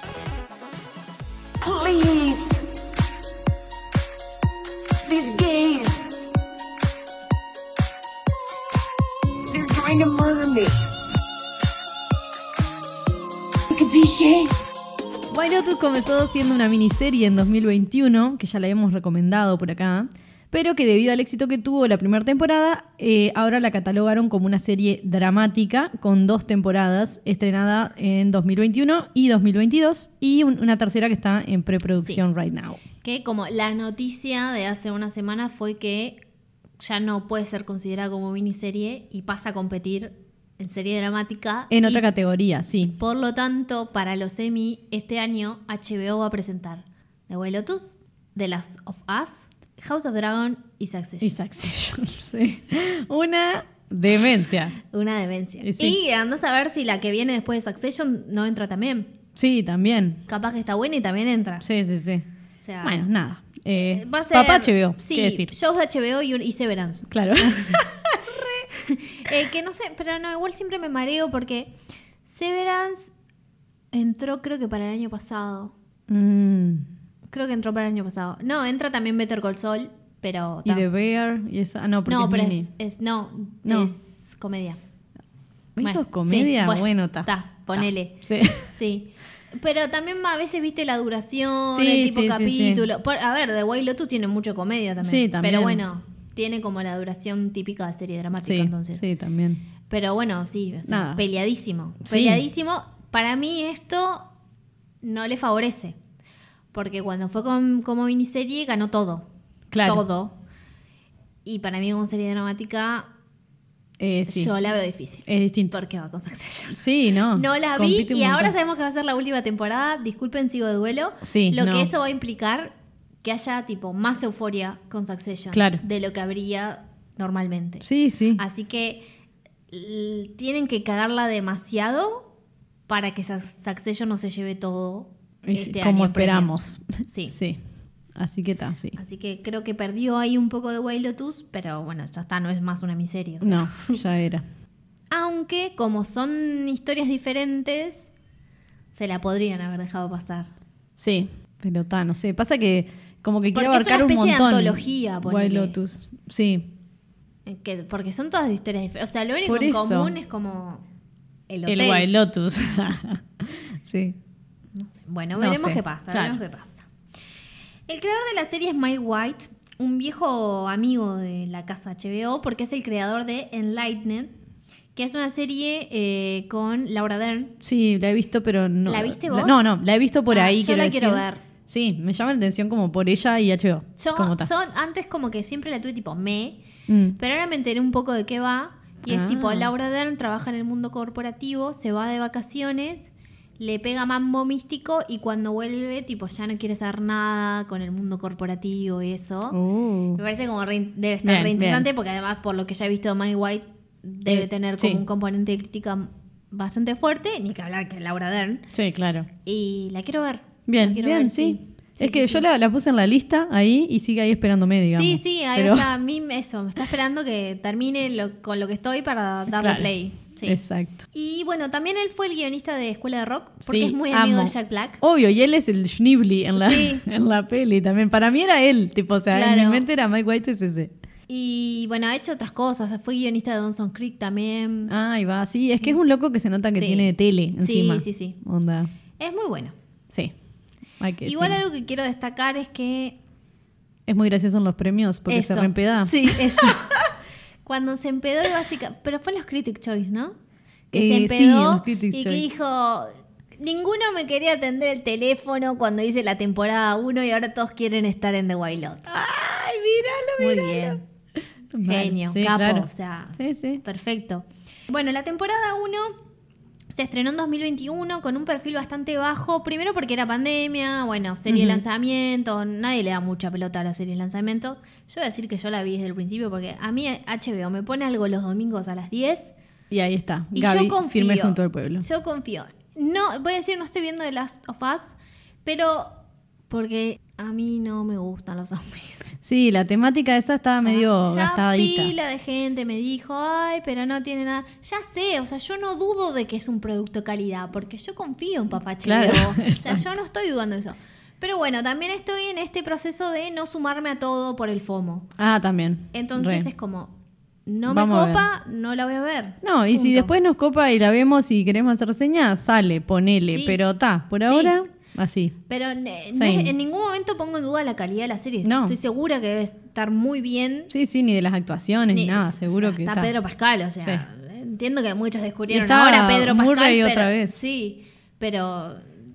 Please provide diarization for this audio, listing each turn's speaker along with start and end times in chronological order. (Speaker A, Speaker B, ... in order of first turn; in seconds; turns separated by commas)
Speaker A: 1.6-2.6, Speaker A: 5.0-6.1, Speaker A: 9.5-10.8, Speaker A: 13.7-14.5, Speaker B: 15.3-32.8, Speaker C: 33.0-36.2, Speaker C: 36.8-42.0, Speaker B: 41.7-43.0, Speaker C: 43.0-51.4, Speaker B: 51.2-54.8, Speaker C: 54.8-59.1, Speaker B: 55.6-56.0, Speaker B: 59.4-60.2, Speaker C: 60.3-61.6, Speaker B: 61.6-62.2, Speaker C: 62.6-63.0, Speaker B: 62.8-65.5, Speaker C: 63.7-71.7, Speaker B: 67.1-67.8, Speaker C: 72.2-73.1, Speaker C: 73.9-75.7, Speaker B: 76.1-76.8, Speaker C: 77.3-80.8, Speaker B: 80.6-82.7, Speaker C: 82.0-84.8, Speaker B: 83.6-83.9, Speaker B: 85.8-88.7, Speaker C: 85.8-99.0, Speaker B: 91.7-92.8, Speaker B: 95.0-95.8, Speaker B: 98.4-99.6, Speaker C: 99.9-104.3, Speaker B: 100.9-101.2, Speaker B: 102.0-102.4, Speaker C: 105.0-106.0, Speaker C: 106.7-109.2, Speaker B: 109.7-110.0, Speaker C: 109.8-110.3, Speaker C: 111.4-113.1, Speaker B: 114.0-114.5, Speaker C: 114.2-127.8, Speaker B: 115.3-115.7, Speaker B: 116.7-118.5, Speaker B: 121.2-121.9, Speaker B: 125.5-125.8, Speaker B: 127.8-128.4, Speaker C: 128.4-129.0, Speaker C: 129.7-132.3, Speaker C: 132.9-137.3, Speaker B: 135.4-137.6, Speaker B: 138.2-139.0, Speaker C: 138.9-144.0, Speaker B: 143.4-144.4, Speaker C: 145.1-148.1, Speaker C: 148.9-150.5, Speaker B: 151.0-156.7, Speaker C: 153.5-155.7, Speaker C: 157.4-160.8, Speaker B: 159.4-160.1, Speaker C: 161.5-162.1, Speaker B: 161.7-164.2, Speaker C: 164.8-166.9, Speaker B: 165.4-166.4, Speaker C: 167.9-174.3, Speaker C: 174.9-177.5, Speaker B: 177.6-184.5, Speaker C: 178.9-179.6, Speaker C: 180.3-181.4, Speaker C: 184.0-186.6, Speaker B: 186.9-187.2, Speaker C: 187.2-199.6, Speaker B: 189.1-189.7, Speaker B: 199.5-200.2, Speaker C: 200.1-208.7, Speaker B: 201.2-201.9, Speaker B: 204.2-205.0, Speaker B: 208.7-209.3, Speaker C: 209.4-212.4, Speaker B: 210.7-215.9, Speaker C: 214.9-220.6, Speaker B: 219.6-219.9, Speaker B: 220.4-221.0, Speaker C: 221.1-225.0, Speaker B: 223.7-230.9, Speaker C: 226.6-227.0, Speaker C: 229.3-229.8, Speaker C: 231.3-234.9, Speaker B: 234.9-238.9, Speaker C: 236.8-238.4, Speaker C: 239.2-239.7, Speaker B: 241.0-241.6, Speaker C: 241.2-243.2, Speaker B: 244.1-246.8, Speaker C: 245.3-247.0, Speaker C: 247.6-250.3, Speaker C: 250.9-259.2, Speaker B: 250.9-252.5, Speaker B: 259.1-261.0, Speaker C: 260.4-261.0, Speaker B: 261.7-263.8, Speaker C: 261.9-266.1, Speaker C: 266.9-279.5, Speaker B: 271.5-271.8, Speaker B: 279.9-282.0, Speaker C: 280.5-286.2, Speaker C: 286.7-289.3, Speaker B: 289.4-292.1, Speaker C: 290.8-305.3, Speaker B: 299.0-300.1, Speaker B: 305.4-306.7, Speaker C: 306.1-307.1, Speaker C: 307.7-310.3, Speaker B: 307.9-308.5, Speaker B: 309.6-315.5, Speaker C: 313.5-313.8, Speaker C: 314.4-314.7, Speaker C: 315.7-320.9, Speaker B: 316.3-316.7, Speaker B: 318.6-318.9, Speaker B: 320.9-323.3, Speaker C: 322.1-329.0, Speaker B: 325.7-327.6